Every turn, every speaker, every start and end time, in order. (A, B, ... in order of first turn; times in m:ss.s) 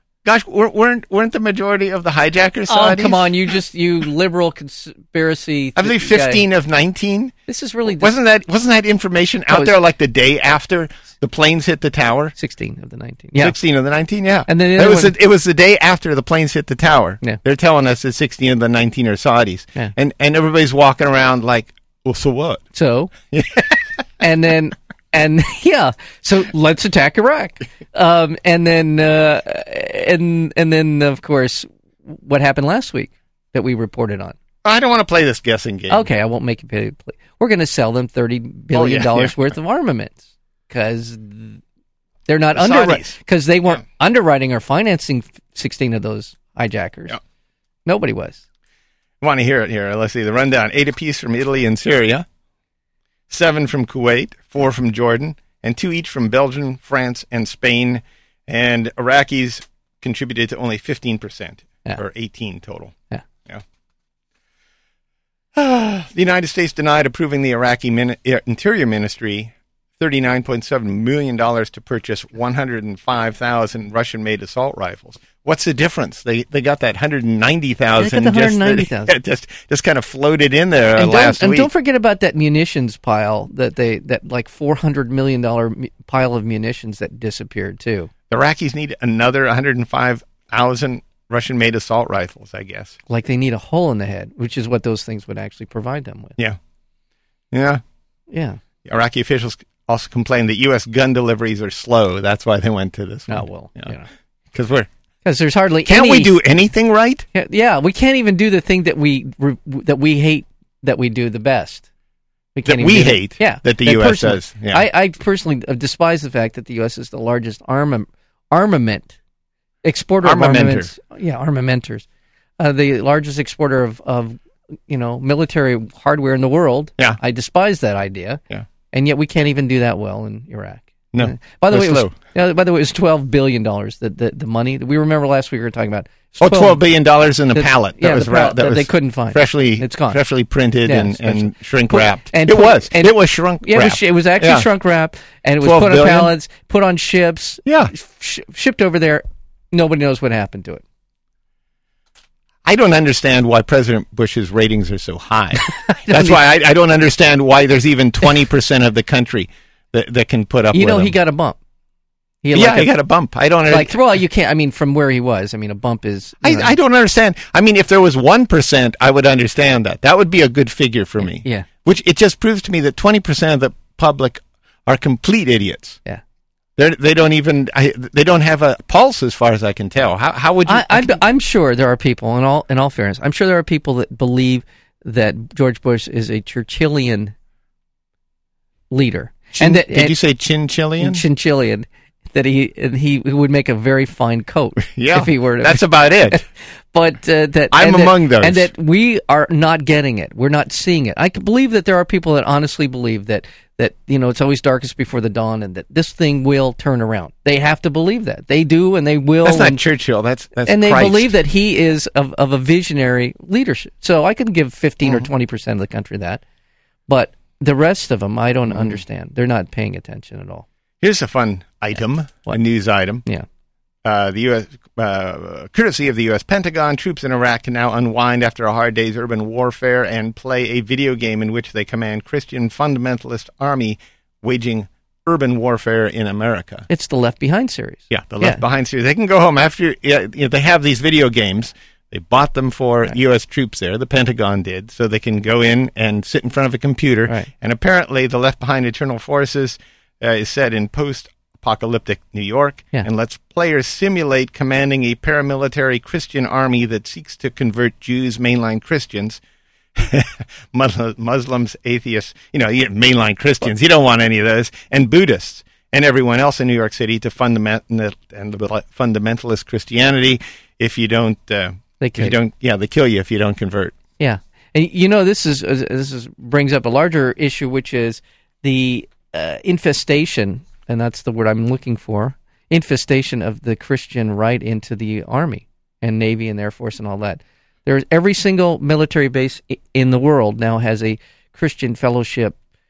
0:00.2-0:03.3 A
0:02.7-0:06.4 B
0:05.8-0:07.3 A
0:07.5-0:08.1 B
0:07.9-0:12.4 A
0:12.4-0:13.6 B
0:13.4-0:22.6 A
0:14.5-0:15.1 B
0:22.7-0:23.1 B
0:23.3-0:23.8 A
0:24.2-0:34.4 B
0:34.6-0:36.1 A
0:35.9-0:41.6 B
0:38.7-0:39.5 A
0:42.3-0:47.2 B
0:42.5-0:43.2 A
0:47.9-0:48.4 B
0:49.2-0:52.2 A
0:53.3-1:02.9 A
1:05.5-1:21.7 A
1:18.0-1:19.1 B
1:21.0-1:28.1 B
1:28.3-1:33.0 A
1:33.1-1:36.4 B
1:37.5-1:37.8 A
1:38.3-1:38.6 B
1:38.8-1:43.9 A
1:43.3-1:44.1 B
1:44.5-1:44.9 A
1:45.2-1:46.4 B
1:45.8-1:47.3 A
1:47.3-1:51.9 B
1:52.5-1:59.2 B
1:52.6-1:54.9 A
1:59.8-2:02.0 B
2:00.2-2:00.9 A
2:02.6-2:16.8 B
2:11.1-2:12.1 A
2:16.4-2:24.7 A
2:17.5-2:20.2 B
2:20.8-2:30.8 B
2:25.6-2:26.3 A
2:27.6-2:27.9 A
2:32.6-2:41.2 A
2:35.6-2:36.4 B
2:40.7-2:41.6 B
2:42.4-2:42.9 B
2:42.5-2:44.0 A
2:43.7-2:46.8 B
2:46.4-2:56.0 A
2:51.2-2:51.7 B
2:56.8-3:01.2 A
3:00.6-3:07.3 B
3:08.9-3:10.2 B
3:09.5-3:11.2 A
3:11.0-3:29.8 B
3:14.9-3:16.4 A
3:17.7-3:18.7 A
3:29.4-3:31.4 A
3:30.6-3:36.4 B
3:37.1-3:40.6 B
3:38.7-3:39.0 A
3:41.0-3:43.2 A
3:44.0-3:56.9 A
3:56.9-3:58.6 B
3:58.1-4:19.4 A
4:19.9-4:34.0 A
4:32.0-4:32.4 B
4:34.2-4:52.6 B